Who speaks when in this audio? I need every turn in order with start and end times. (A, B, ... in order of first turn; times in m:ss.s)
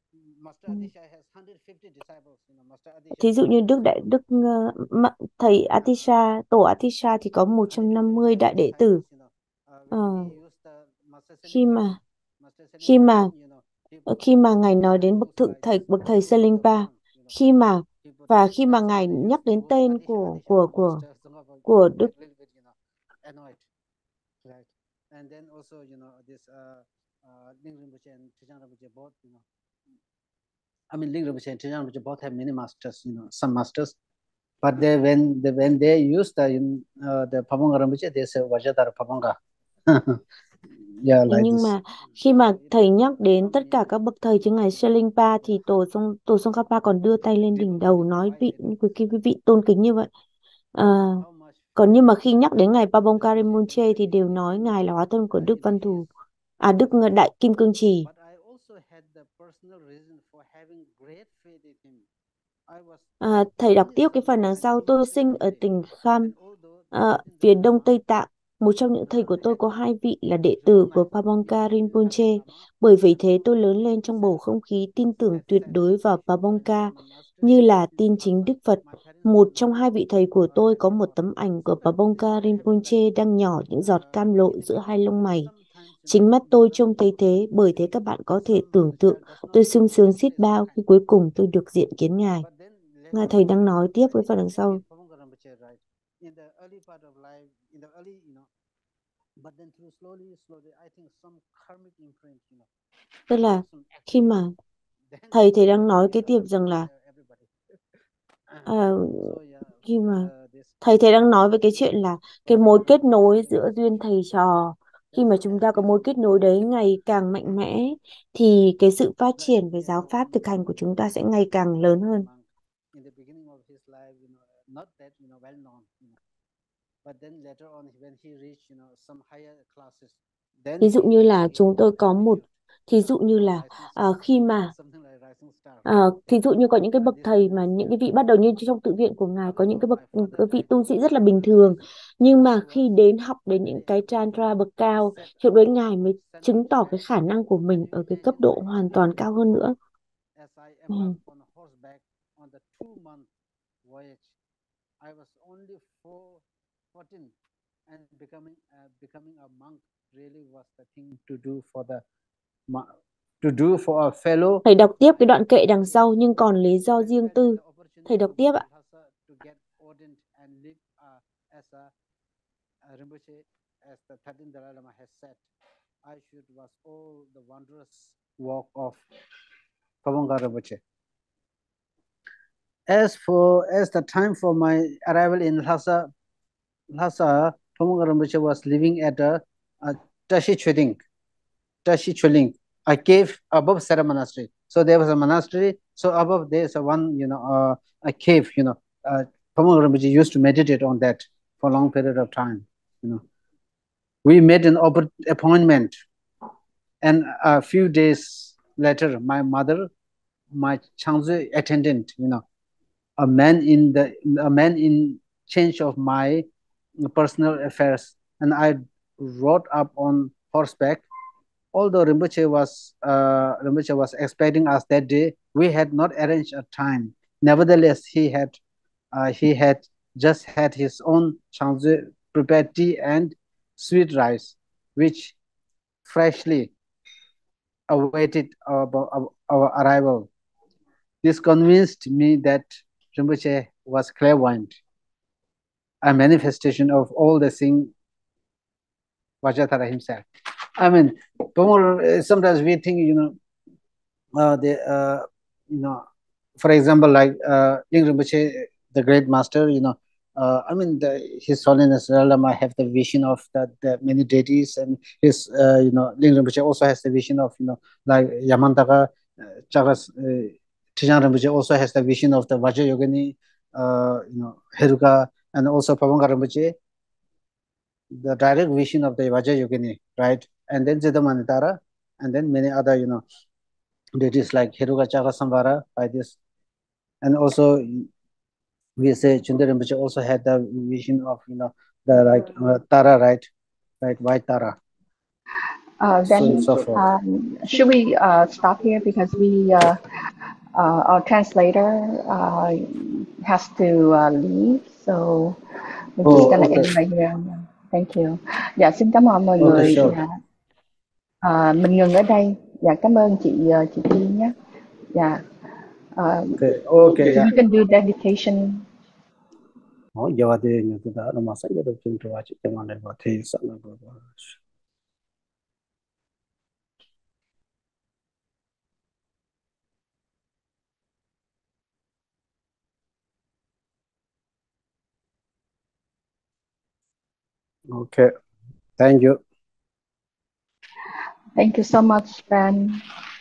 0:00.1-0:03.4 A
0:03.2-0:09.0 B
0:05.8-0:06.1 A
0:07.7-0:14.3 A
0:09.9-0:10.3 B
0:11.5-0:12.0 B
0:12.8-0:13.3 B
0:14.1-0:21.0 B
0:14.8-0:17.4 A
0:18.0-0:23.7 A
0:21.6-0:22.1 B
0:24.4-0:29.4 A
0:30.9-0:33.9 A
0:34.6-0:39.4 A
0:39.9-0:40.2 A
0:41.0-0:44.9 A
0:41.3-0:50.1 B
0:47.5-0:49.1 A
0:50.7-0:51.2 B
0:50.9-0:52.0 A
0:51.8-0:56.1 B
0:52.7-0:54.8 A
0:55.3-0:56.1 A
0:56.6-0:58.1 B
0:58.0-1:02.1 A
1:02.7-1:08.0 A
1:03.2-1:06.3 B
1:06.9-1:25.5 B
1:09.0-1:09.8 A
1:10.5-1:14.4 A
1:15.1-1:23.2 A
1:23.7-1:27.5 A
1:26.1-1:32.4 B
1:28.2-1:30.8 A
1:32.4-1:38.5 A
1:33.1-1:34.8 B
1:39.4-1:42.7 A
1:43.3-1:44.5 B
1:43.5-1:44.4 A
1:45.1-1:47.5 A
1:45.3-1:46.9 B
1:48.5-1:51.1 A
1:48.7-1:49.3 B
1:49.8-1:50.3 B
1:50.8-2:02.3 B
1:52.4-1:54.0 A
1:55.1-1:56.1 A
1:59.4-2:00.8 A
2:01.9-2:06.2 A
2:07.0-2:12.5 A
2:10.8-2:14.7 B
2:13.0-2:15.9 A
2:15.8-2:29.7 B
2:17.0-2:17.8 A
2:19.4-2:27.1 A
2:27.6-2:29.6 A
2:30.4-2:33.3 A
2:33.8-2:34.3 A
2:35.0-2:37.3 A
2:37.9-2:42.0 A
2:42.7-2:51.9 A
2:44.6-2:48.6 B
2:52.8-2:55.4 A
2:56.0-2:59.0 A
3:00.0-3:00.8 A
3:02.9-3:06.1 A
3:06.9-3:11.0 A
3:11.8-3:23.2 A
3:24.2-3:26.0 A
3:27.0-3:29.9 A
3:30.5-3:32.4 A
3:33.2-3:36.5 A
3:37.0-3:41.0 A
3:41.7-3:48.6 A
3:49.1-3:55.3 A
3:56.0-3:56.7 A
3:57.9-4:00.3 A
4:01.2-4:04.7 A
4:06.0-4:07.9 A
4:09.4-4:10.2 A
4:10.8-4:13.4 A
4:14.3-4:16.0 A
4:16.6-4:29.1 A
4:29.7-4:36.7 A
4:38.1-4:43.2 A
4:44.2-4:46.4 A
4:47.2-4:48.1 A
4:49.0-4:53.5 A
4:54.0-4:54.8 A
4:56.0-5:00.0 C
4:56.2-4:57.1 A
5:00.7-5:05.6 C
5:06.2-5:10.3 C
5:06.2-5:06.9 A
5:09.6-5:10.2 A
5:11.4-5:14.5 C
5:15.1-5:15.4 C
5:16.2-5:18.9 C
5:16.6-5:17.5 A
5:20.1-5:24.6 A
5:37.9-5:38.3 A
5:39.0-5:39.4 A
5:41.6-5:43.0 C